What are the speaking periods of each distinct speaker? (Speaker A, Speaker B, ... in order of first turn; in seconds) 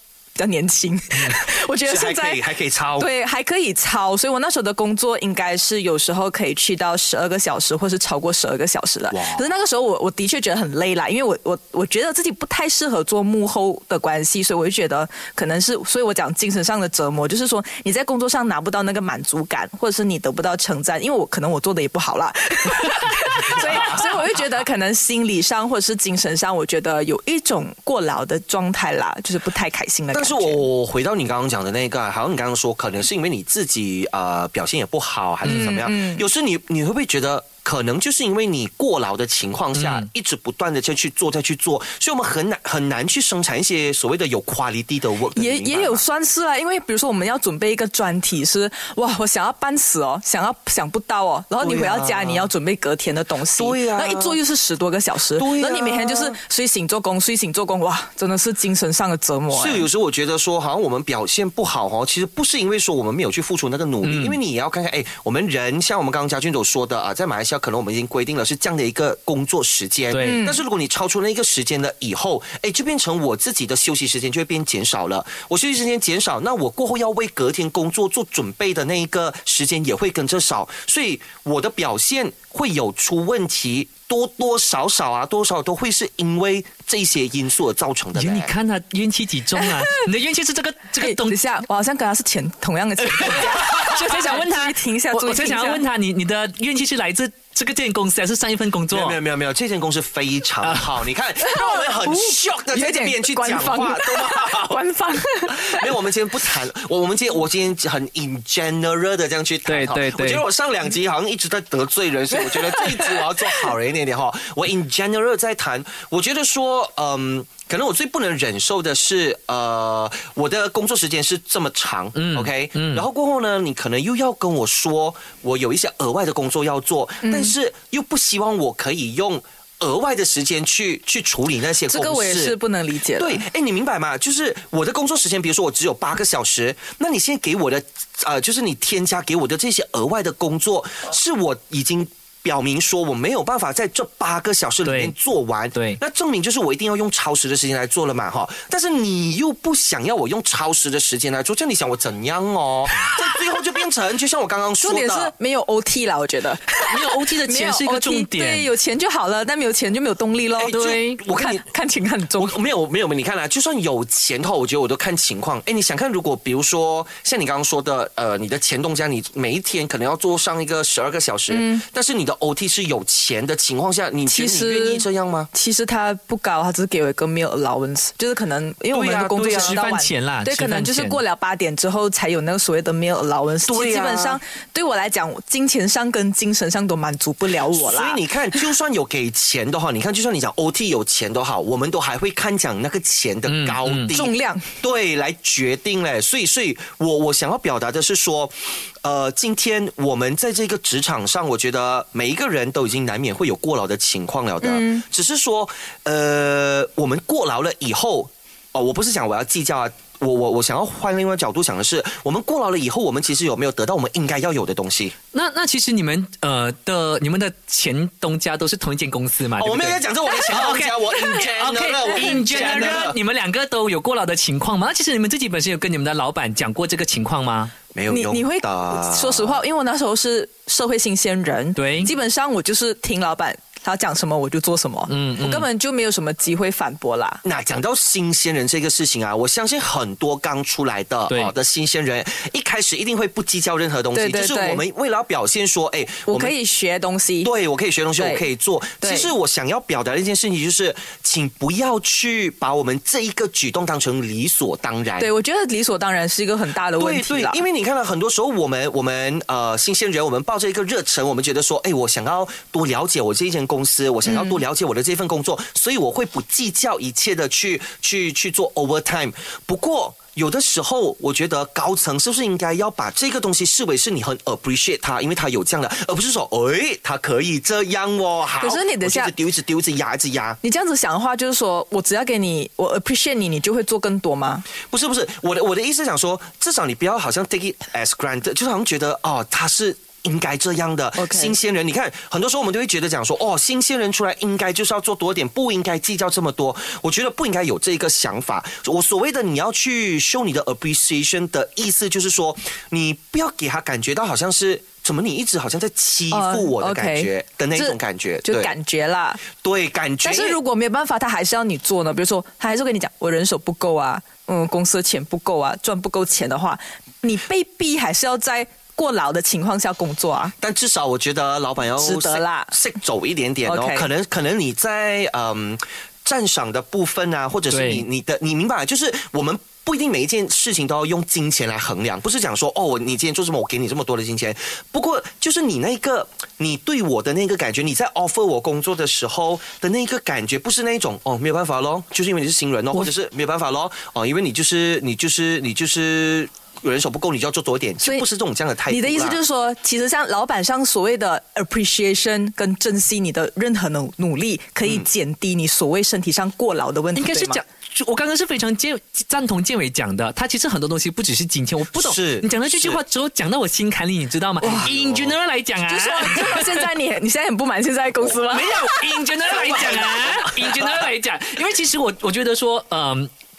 Speaker A: 0.3-2.4, 3.0-30.6, 35.4-36.2, 45.4-59.9, 70.2-70.6, 89.6-90.0, 91.0-95.8, 101.4-105.9, 112.5-113.3, 127.2-127.5, 131.9-133.4, 154.8-162.5, 171.5-171.8, 174.2-188.2, 194.1-194.7, 204.6-205.0, 222.1-222.9, 228.1-237.4, 244.1-244.8, 246.3-247.5, 248.2-248.4, 249.0-249.3, 255.2-257.6, 264.2-264.6, 278.6-279.3, 280.6-284.6, 291.2-291.5, 306.3-309.4, 310.2-320.5, 322.0-322.7, 323.6-324.1, 348.9-357.6, 364.6-364.9, 365.9-369.0
Speaker B: 1.8-3.1, 9.1-9.4, 23.6-24.1, 30.1-46.0, 51.6-52.5, 53.5-54.4, 55.4-56.4, 59.5-88.5, 98.9-104.8, 105.5-132.6, 133.2-155.3, 160.6-161.6, 162.4-175.5, 178.9-179.8, 183.7-184.4, 187.7-215.1, 219.6-223.2, 227.9-229.6, 237.4-246.5, 247.4-255.3, 257.0-280.6, 284.8-308.7, 309.5-310.6, 320.6-349.4, 361.9-363.0, 364.6-365.3, 369.5-371.1
Speaker C: 39.8-40.1, 64.0-64.4, 70.1-70.4, 88.2-91.4, 93.2-99.2, 100.6-100.9, 109.7-110.5, 122.2-123.0, 144.8-145.1, 156.9-158.7, 160.7-161.2, 179.3-181.2, 193.5-194.1, 215.3-227.7, 231.8-232.1, 235.1-235.7, 327.7-328.0, 357.1-366.9, 368.3-373.3